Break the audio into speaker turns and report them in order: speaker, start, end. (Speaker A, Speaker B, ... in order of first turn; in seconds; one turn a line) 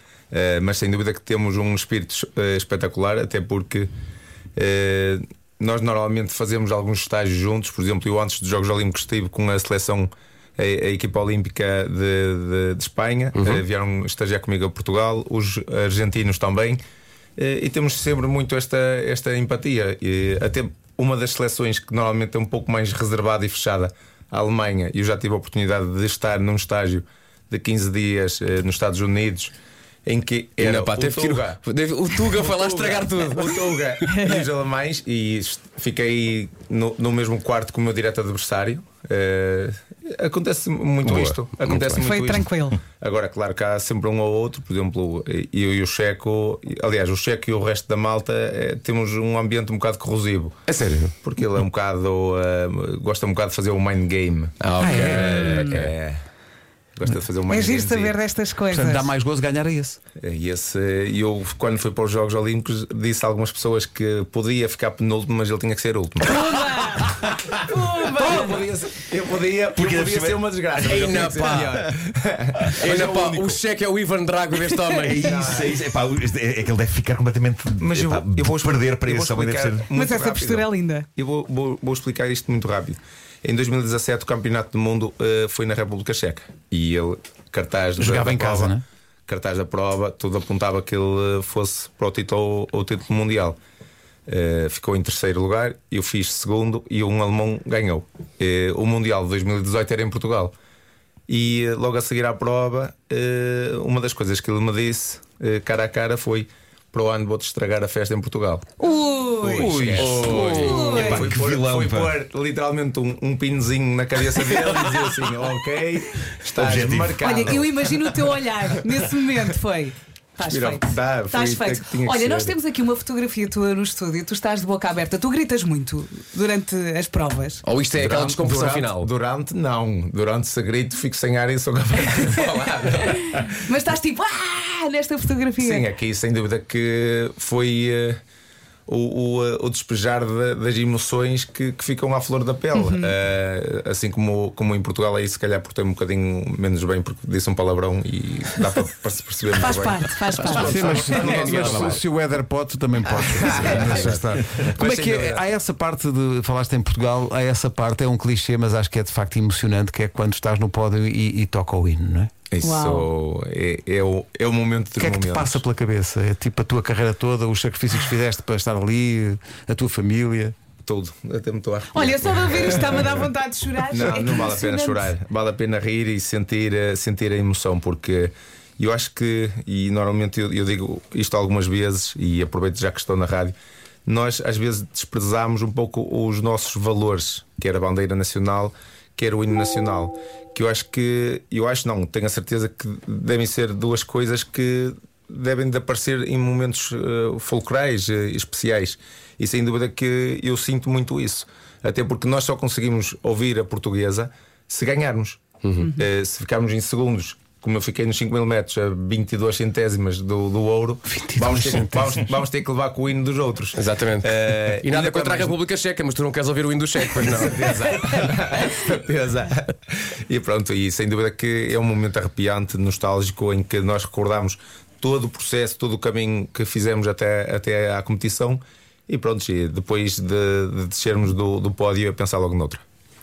Speaker A: 0.3-3.9
Speaker A: 4.5-16.8
Speaker B: 13.3-13.6
Speaker A: 17.4-29.5
Speaker A: 30.1-31.6
Speaker B: 30.6-33.9
Speaker A: 32.4-50.6
Speaker B: 41.0-42.1
Speaker C: 42.0-42.8
Speaker B: 50.7-51.1
Speaker A: 51.2-56.2
Speaker B: 54.6-55.9
Speaker D: 54.8-55.4
Speaker C: 55.4-55.7
Speaker A: 57.0-58.1
Speaker C: 57.5-59.1
Speaker D: 58.7-60.0
Speaker A: 60.2-66.4
Speaker C: 66.2-68.6
Speaker A: 68.1-73.6
Speaker E: 69.7-70.5
Speaker B: 70.8-71.8
Speaker E: 71.0-71.8
Speaker B: 72.8-75.2
Speaker E: 75.0-79.9
Speaker A: 75.2-75.8
Speaker A: 77.8-88.8
Speaker C: 79.9-81.0
Speaker D: 88.0-88.8
Speaker A: 89.3-93.6
Speaker A: 94.3-100.5
Speaker A: 101.3-108.7
Speaker C: 108.8-111.2
Speaker A: 109.4-118.3
Speaker E: 109.5-112.1
Speaker E: 116.5-117.3
Speaker C: 117.2-127.6
Speaker A: 120.5-122.6
Speaker B: 127.6-129.1
Speaker A: 128.0-133.5
Speaker B: 132.5-132.9
Speaker C: 133.1-135.8
Speaker A: 135.6-138.2
Speaker A: 138.9-152.0
Speaker C: 142.8-143.1
Speaker C: 149.6-151.3
Speaker D: 150.5-162.3
Speaker B: 150.6-152.0
Speaker A: 153.2-155.4
Speaker B: 153.6-154.1
Speaker A: 162.5-165.6
Speaker C: 162.6-163.1
Speaker D: 165.0-170.5
Speaker A: 170.8-173.3
Speaker C: 171.9-175.0
Speaker A: 173.9-183.5
Speaker A: 184.1-215.6
Speaker B: 205.6-205.9
Speaker D: 211.1-212.2
Speaker B: 213.8-217.7
Speaker A: 217.1-232.8